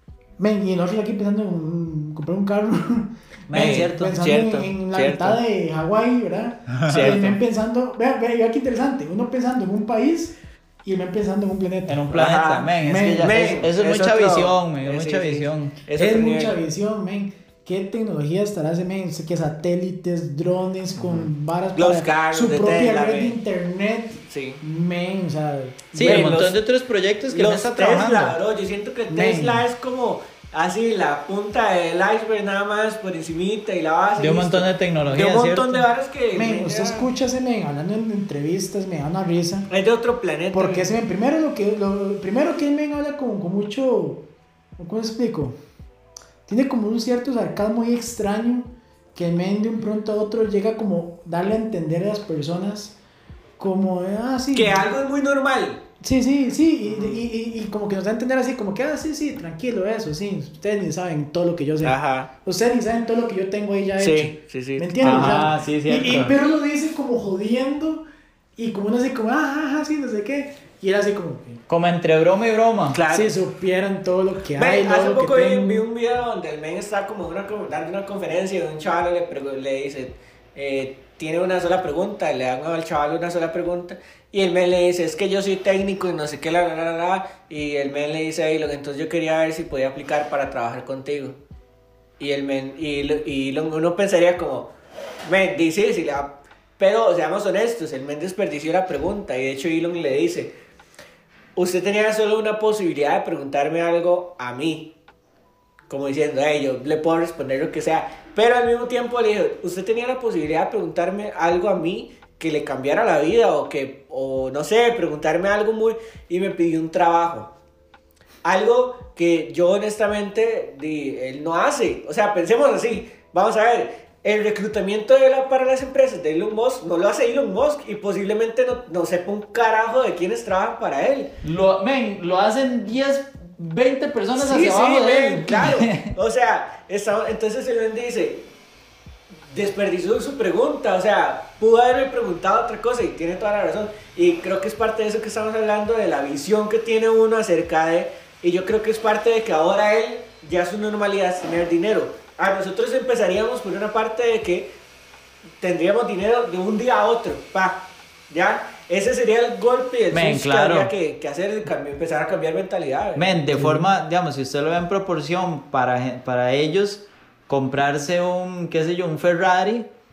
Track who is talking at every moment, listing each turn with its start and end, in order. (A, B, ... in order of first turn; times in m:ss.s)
0:00.4-0:12.0 A
0:03.5-0:04.2 B
0:03.5-0:05.4 C
0:06.7-0:07.2 B
0:06.9-0:07.4 C
0:11.9-0:15.8 B
0:12.1-0:16.6 C
0:12.8-0:13.5 A
0:16.0-0:26.5 A
0:21.0-0:23.4 C
0:24.3-0:24.6 C
0:26.0-0:28.4 B
0:26.0-0:26.6 C
0:27.3-0:37.1 C
0:29.1-0:29.6 A
0:34.2-0:35.8 B
0:36.3-0:39.7 A
0:39.7-0:40.9 C
0:40.5-0:44.2 A
0:44.8-0:45.6 A
0:46.5-0:53.0 A
0:53.6-0:54.9 A
0:54.5-0:55.8 C
0:56.0-1:08.0 A
0:56.8-0:57.2 C
1:01.8-1:02.3 C
1:04.0-1:05.3 C
1:05.0-1:06.4 B
1:08.6-1:11.6 A
1:11.7-1:13.0 B
1:12.9-1:13.3 C
1:13.1-1:15.8 A
1:14.6-1:31.4 C
1:32.2-1:34.7 C
1:35.3-1:40.5 C
1:41.6-1:44.9 C
1:45.9-1:57.5 C
1:58.4-2:11.3 C
2:11.4-2:16.1 B
2:14.4-2:18.4 C
2:19.5-2:34.7 C
2:35.6-2:43.3 C
2:40.1-2:40.9 B
2:43.2-2:49.9 B
2:43.5-2:43.8 A